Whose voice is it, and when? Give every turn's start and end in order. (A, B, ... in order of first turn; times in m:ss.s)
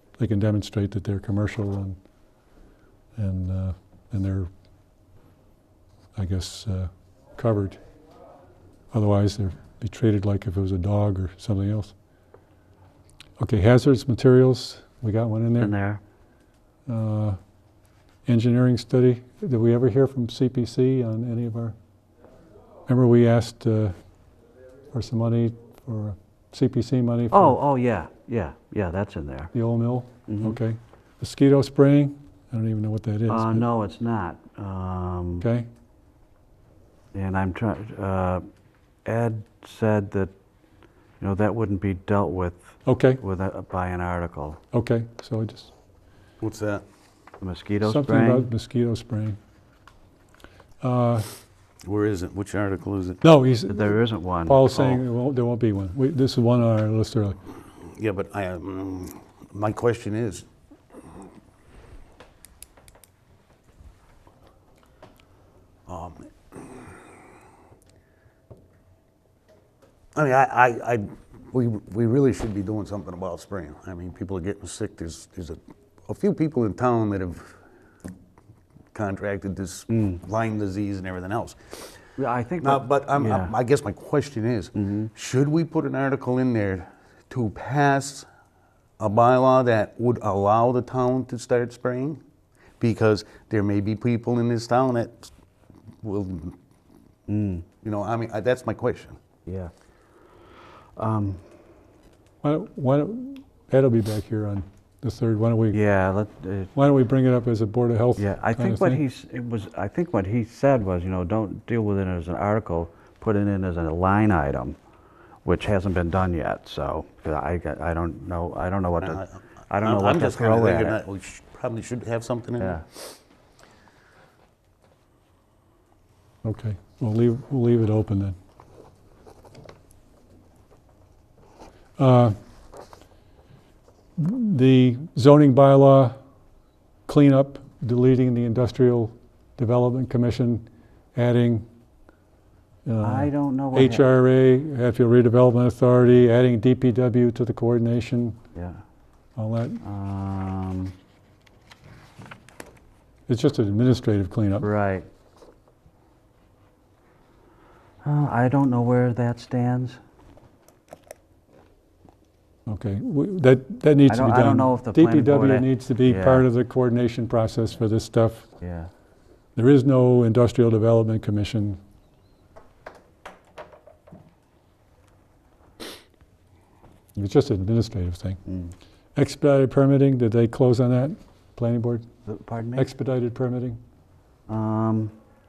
0:00.2-0:02.0 A
0:03.2-0:04.5 A
0:06.2-0:07.8 A
0:08.9-0:11.9 A
0:13.4-0:15.7 A
0:15.6-0:16.0 B
0:16.9-0:17.4 A
0:18.3-0:21.8 A
0:22.9-0:24.0 A
0:24.9-0:27.6 A
0:27.3-0:29.5 B
0:29.5-0:33.7 A
0:30.3-0:30.6 B
0:33.3-0:35.4 B
0:35.4-0:35.7 A
0:37.1-0:38.4 B
0:39.1-0:40.3 B
0:41.2-0:44.6 B
0:42.9-0:43.2 A
0:44.7-0:45.7 A
0:46.4-0:46.8 C
0:47.4-0:48.5 B
0:47.8-0:49.4 A
0:50.8-0:51.3 A
0:51.8-0:53.2 C
0:53.2-0:57.4 A
0:53.7-0:55.0 B
0:57.9-1:00.5 C
1:05.9-1:06.6 C
1:10.2-1:17.6 C
1:18.9-1:21.9 C
1:19.9-1:20.2 B
1:22.2-1:23.6 B
1:22.6-1:28.3 C
1:24.8-1:25.1 B
1:29.0-1:32.2 C
1:32.8-1:35.3 C
1:36.0-1:36.6 C
1:37.3-1:37.6 B
1:37.8-1:39.2 C
1:39.5-1:39.7 B
1:41.0-1:41.5 B
1:42.4-1:45.8 A
1:45.7-1:46.7 B
1:46.7-1:49.0 A
1:48.2-1:54.8 B
1:55.4-2:01.0 B
1:59.0-2:02.8 C
2:06.4-2:08.4 A
2:12.0-2:12.4 A
2:14.2-2:16.2 A
2:17.1-2:21.7 A
2:22.9-2:28.4 A
2:23.0-2:24.0 B
2:28.6-2:28.8 B
2:29.4-2:29.8 A
2:29.8-2:30.9 B
2:33.3-2:34.7 A
2:34.6-2:35.1 B
2:38.0-2:40.0 B
2:42.7-2:48.5 A
2:44.1-2:46.5 B
2:48.6-2:48.9 B
2:49.6-2:51.8 A
2:57.2-2:58.4 A
2:58.5-2:58.7 B
2:59.2-3:02.1 A
3:02.3-3:02.9 B
3:02.8-3:03.8 A
3:04.5-3:05.1 B